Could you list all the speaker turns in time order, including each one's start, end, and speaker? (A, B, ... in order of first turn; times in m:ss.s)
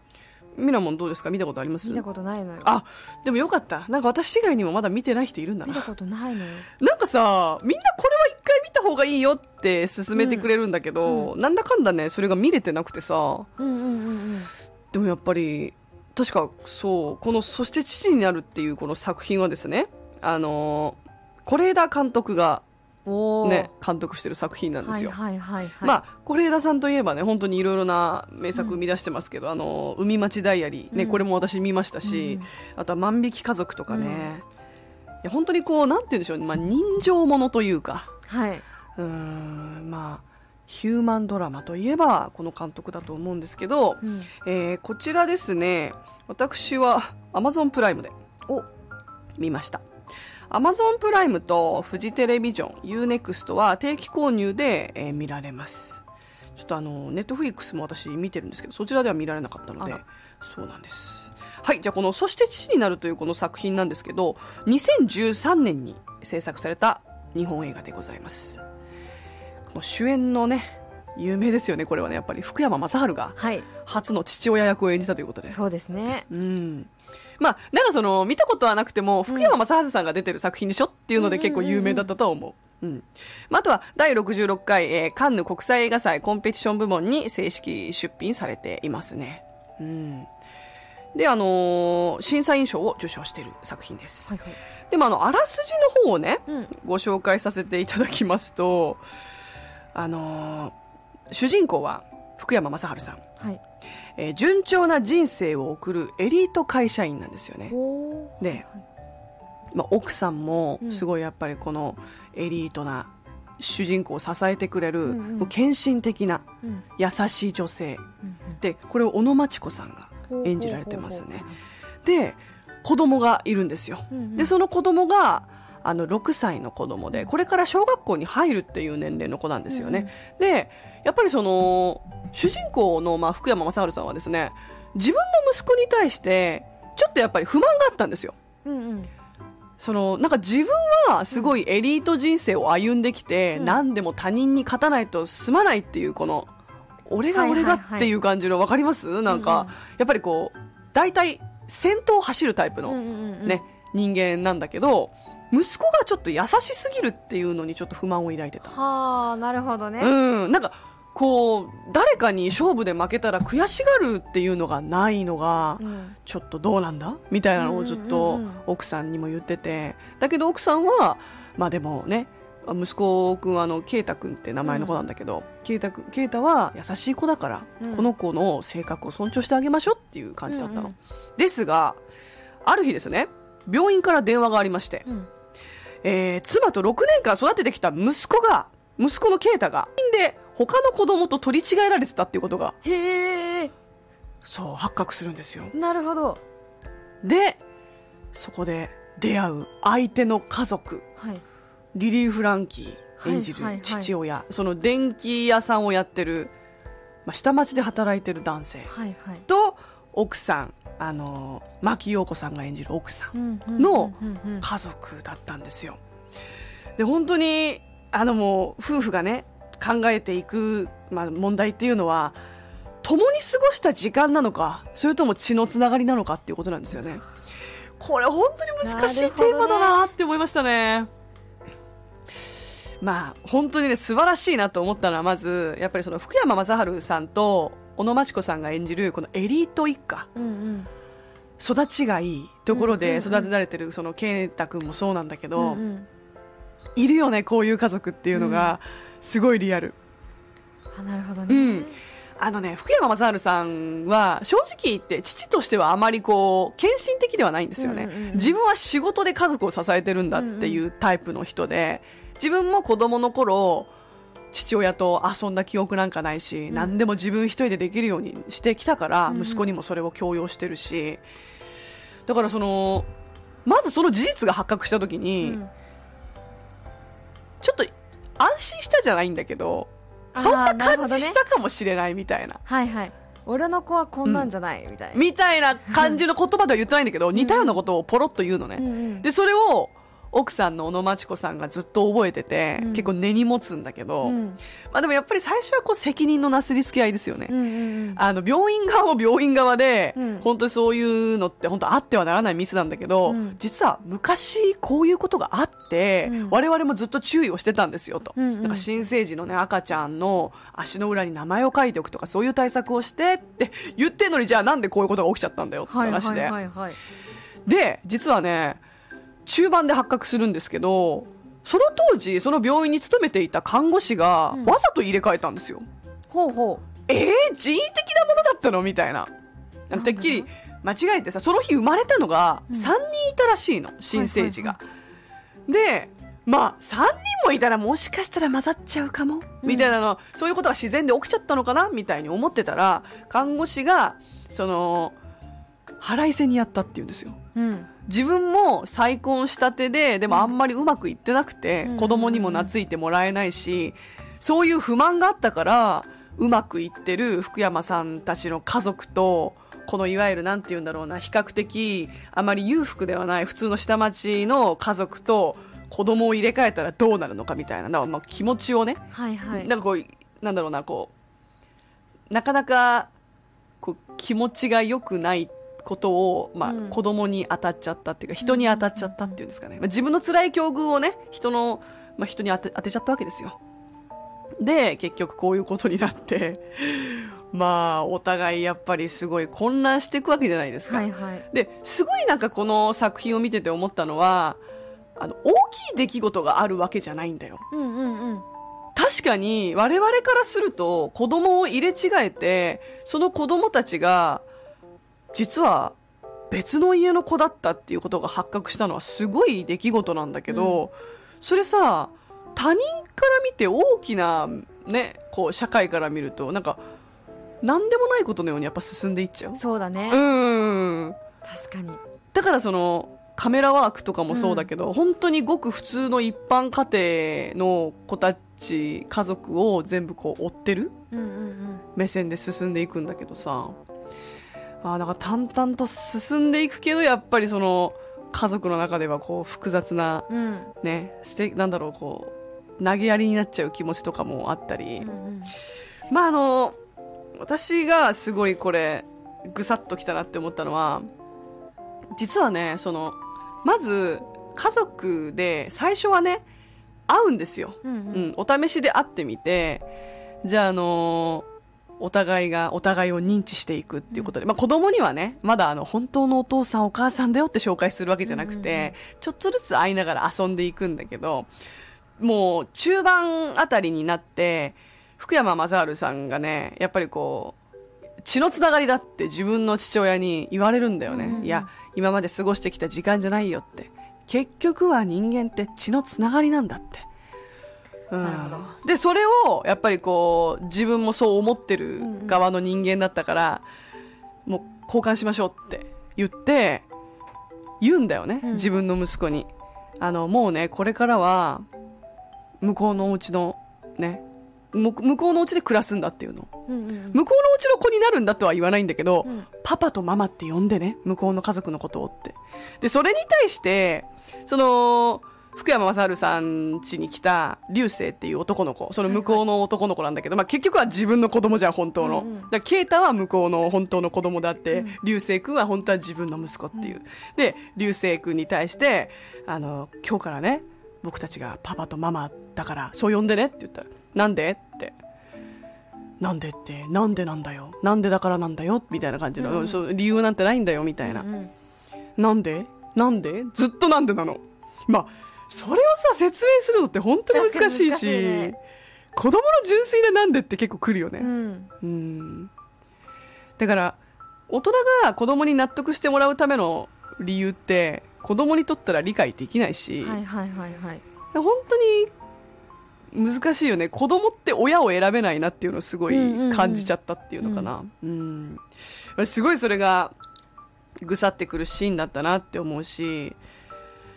0:00.6-0:02.0 A
0:01.8-0:02.7 B
0:02.6-0:05.9 A
0:05.7-0:06.7 B
0:06.8-0:13.5 A
0:10.2-0:10.5 B
0:11.0-0:11.3 B
0:13.6-0:14.5 B
0:14.9-0:22.6 A
0:23.1-0:23.7 B
0:23.4-0:25.2 A
0:24.8-0:26.0 B
0:25.8-0:34.4 A
0:30.9-0:31.2 B
0:32.0-0:32.5 B
0:33.9-0:34.3 B
0:35.2-0:38.1 A
0:38.3-0:38.6 B
0:39.0-0:48.1 A
0:44.0-0:44.3 B
0:49.4-0:49.8 A
0:50.5-0:56.0 A
0:56.6-1:08.6 A
1:09.7-1:15.6 A
1:13.4-1:13.7 B
1:15.5-1:16.3 B
1:16.3-1:30.3 A
1:19.3-1:19.5 B
1:21.2-1:22.1 B
1:31.1-1:34.4 A
1:34.3-1:34.6 B
1:34.9-1:39.0 A
1:36.5-1:36.7 B
1:39.9-1:40.7 A
1:41.3-1:43.2 A
1:44.2-1:47.8 A
1:47.7-1:48.8 B
1:48.4-1:48.6 A
1:49.7-1:56.5 A
1:55.0-1:55.5 B
1:57.0-1:58.0 A
1:58.2-1:58.6 B
1:58.6-2:01.5 A
2:00.3-2:01.5 B
2:02.0-2:18.4 A
2:04.1-2:04.5 B
2:09.7-2:10.1 B
2:18.6-2:19.1 B
2:19.8-2:26.5 A
2:27.1-2:38.8 A
2:27.3-2:28.1 B
2:29.3-2:29.7 B
2:32.9-2:33.6 B
2:38.6-2:40.1 B
2:40.0-3:02.0 A
2:45.8-2:46.2 B
2:47.6-2:48.6 B
2:54.6-2:55.0 B
2:57.8-2:58.1 B
3:00.5-3:01.0 B
3:02.6-3:05.1 A
3:06.0-3:12.8 A
3:12.8-3:13.7 B
3:14.4-3:15.7 A
3:15.7-3:16.4 B
3:17.2-3:17.6 A
3:18.3-3:21.1 A
3:21.9-3:26.5 A
3:23.2-3:24.1 B
3:27.2-3:28.9 A
3:28.9-3:29.4 B
3:29.5-3:36.0 A
3:33.3-3:34.7 B
3:37.0-3:42.4 A
3:43.0-3:47.2 A
3:48.0-3:51.1 A
3:48.8-3:50.1 B
3:53.0-4:00.3 A
4:00.4-4:00.9 B
4:01.6-4:05.8 A
4:02.7-4:03.5 B
4:05.6-4:06.1 B
4:07.0-4:10.0 A
4:08.3-4:08.7 B
4:10.9-4:12.0 B
4:11.5-4:23.9 A
4:17.8-4:18.6 B
4:20.4-4:20.8 B
4:24.5-4:31.2 A
4:29.3-4:29.7 B
4:32.3-4:33.1 A
4:33.6-4:35.6 A
4:35.4-4:35.7 B
4:37.6-4:42.6 A
4:40.4-4:41.4 B
4:42.7-4:45.2 B
4:45.1-4:54.4 A
4:45.9-4:46.2 B
4:47.4-4:47.8 B
4:48.8-4:49.3 B
4:52.8-4:53.1 B
4:54.2-4:54.6 B
4:54.9-4:57.6 A
4:57.5-4:58.2 B
4:58.2-5:16.6 A
5:00.2-5:00.5 B
5:03.3-5:03.6 B
5:06.2-5:06.6 B
5:08.4-5:08.9 B
5:15.9-5:17.0 B
5:17.7-5:18.8 A
5:19.5-5:25.8 A
5:26.3-5:26.8 B
5:27.1-5:29.3 A
5:29.9-5:34.8 A
5:29.9-5:30.5 B
5:34.1-5:34.8 B
5:35.7-5:45.2 A
5:39.6-5:40.0 B
5:46.0-5:47.4 A
5:47.6-5:47.9 B
5:48.1-6:11.1 A
5:51.8-5:52.7 B
6:09.1-6:09.7 B
6:12.3-6:13.1 A
6:13.8-6:23.6 A
6:16.6-6:17.0 B
6:18.4-6:19.4 B
6:24.6-6:34.6 A
6:30.9-6:31.5 B
6:35.2-6:37.6 A
6:37.7-6:38.4 B
6:39.0-6:44.4 A
6:45.3-6:46.0 A
6:46.5-6:56.8 A
6:50.5-6:50.8 B
6:57.6-7:01.2 A
6:59.6-7:00.2 B
7:01.4-7:02.0 B
7:02.3-7:11.0 A
7:04.3-7:04.7 B
7:11.1-7:11.8 B
7:12.0-7:13.8 A
7:14.8-7:20.3 A
7:20.3-7:20.7 B
7:20.8-7:25.1 A
7:25.0-7:25.5 B
7:26.1-7:26.8 A
7:27.4-7:31.1 A
7:32.2-7:36.4 A
7:37.1-7:39.9 A
7:37.8-7:38.3 B
7:40.4-7:41.5 A
7:42.0-7:51.5 A
7:48.2-7:49.0 B
7:52.2-7:57.6 A
7:58.2-8:07.1 A
8:01.1-8:01.7 B
8:08.1-8:13.6 A
8:08.2-8:08.7 B
8:12.0-8:12.4 B
8:14.5-8:16.8 A
8:17.8-8:21.7 A
8:18.4-8:18.7 B
8:22.6-8:26.5 A
8:26.7-8:27.2 B
8:27.1-8:55.0 A
8:39.1-8:39.4 B
8:42.0-8:42.5 B
8:44.7-8:45.0 B
8:56.2-9:01.3 A
8:59.4-8:59.8 B
9:01.0-9:01.5 B
9:02.2-9:08.6 A
9:07.3-9:08.5 B
9:09.2-9:11.3 A
9:11.2-9:11.7 B
9:11.8-9:12.5 A
9:13.6-9:14.0 A
9:14.5-9:20.2 A
9:20.0-9:21.0 B
9:21.3-9:22.1 A
9:23.1-9:28.6 A
9:26.1-9:27.7 B
9:29.2-9:30.2 A
9:31.0-9:33.4 A